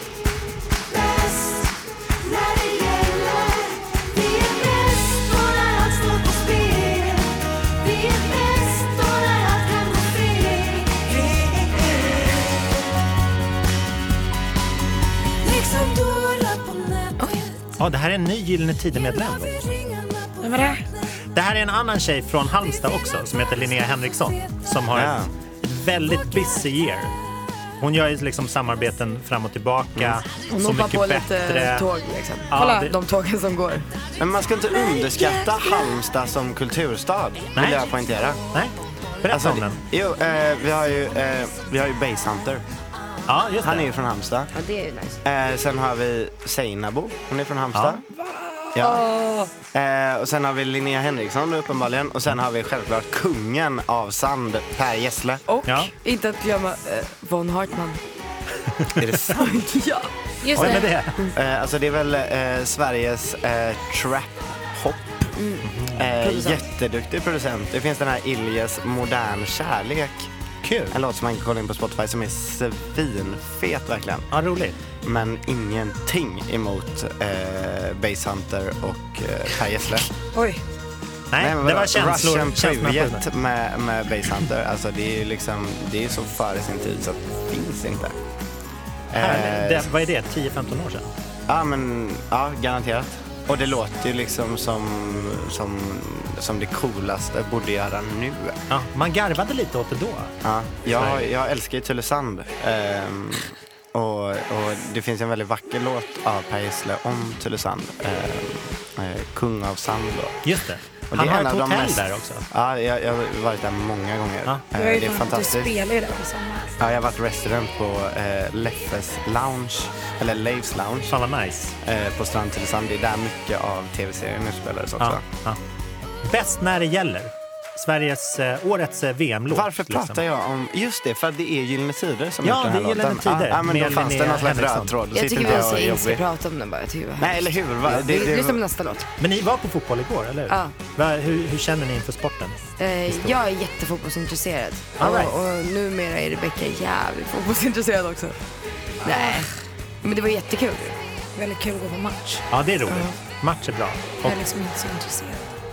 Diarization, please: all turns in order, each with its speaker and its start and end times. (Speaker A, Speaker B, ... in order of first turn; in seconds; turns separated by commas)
Speaker A: 0.9-1.7, Speaker A: 2.2-12.1, Speaker A: 15.4-17.5, Speaker B: 17.8-19.6, Speaker A: 19.6-20.8, Speaker C: 20.4-20.8, Speaker B: 21.3-27.1, Speaker D: 24.9-25.3, Speaker B: 27.8-31.9, Speaker E: 30.5-33.9, Speaker B: 32.5-32.9, Speaker C: 32.6-32.9, Speaker D: 34.2-38.4, Speaker B: 37.5-37.8, Speaker B: 38.5-39.8, Speaker D: 39.3-42.6, Speaker B: 43.3-43.9, Speaker D: 43.6-44.5, Speaker E: 44.5-45.2, Speaker D: 45.2-48.0, Speaker B: 47.7-48.0, Speaker C: 48.1-49.5, Speaker D: 48.8-49.0, Speaker D: 49.7-55.4, Speaker E: 55.5-58.0, Speaker B: 55.7-55.9, Speaker B: 58.8-59.0, Speaker D: 59.0-59.5, Speaker E: 59.3-60.1, Speaker C: 60.4-60.9, Speaker B: 60.5-61.2, Speaker D: 61.3-65.3, Speaker E: 65.4-66.6, Speaker B: 65.6-66.1, Speaker D: 66.0-70.3, Speaker B: 70.6-71.0, Speaker D: 70.9-74.3, Speaker B: 74.3-74.8, Speaker D: 75.0-80.1, Speaker C: 80.3-80.6, Speaker B: 81.3-83.3, Speaker D: 81.4-88.2, Speaker D: 89.1-89.9, Speaker B: 89.2-91.1, Speaker D: 91.5-98.6, Speaker B: 98.7-100.4, Speaker D: 100.4-110.4, Speaker B: 100.9-101.3, Speaker B: 110.4-112.5, Speaker D: 111.1-115.7, Speaker C: 114.7-116.8, Speaker D: 116.8-121.1, Speaker B: 121.1-121.8, Speaker D: 121.8-125.2, Speaker B: 125.0-125.6, Speaker B: 126.2-130.2, Speaker D: 129.5-136.2, Speaker B: 132.4-135.0, Speaker E: 135.1-139.1, Speaker D: 137.2-138.6, Speaker B: 139.2-143.4, Speaker E: 140.5-140.8, Speaker E: 142.8-148.4, Speaker B: 145.0-145.3, Speaker C: 149.0-149.5, Speaker E: 149.0-149.5, Speaker E: 150.0-151.0, Speaker C: 151.4-152.4, Speaker B: 152.5-154.5, Speaker E: 152.9-153.2, Speaker C: 154.2-155.6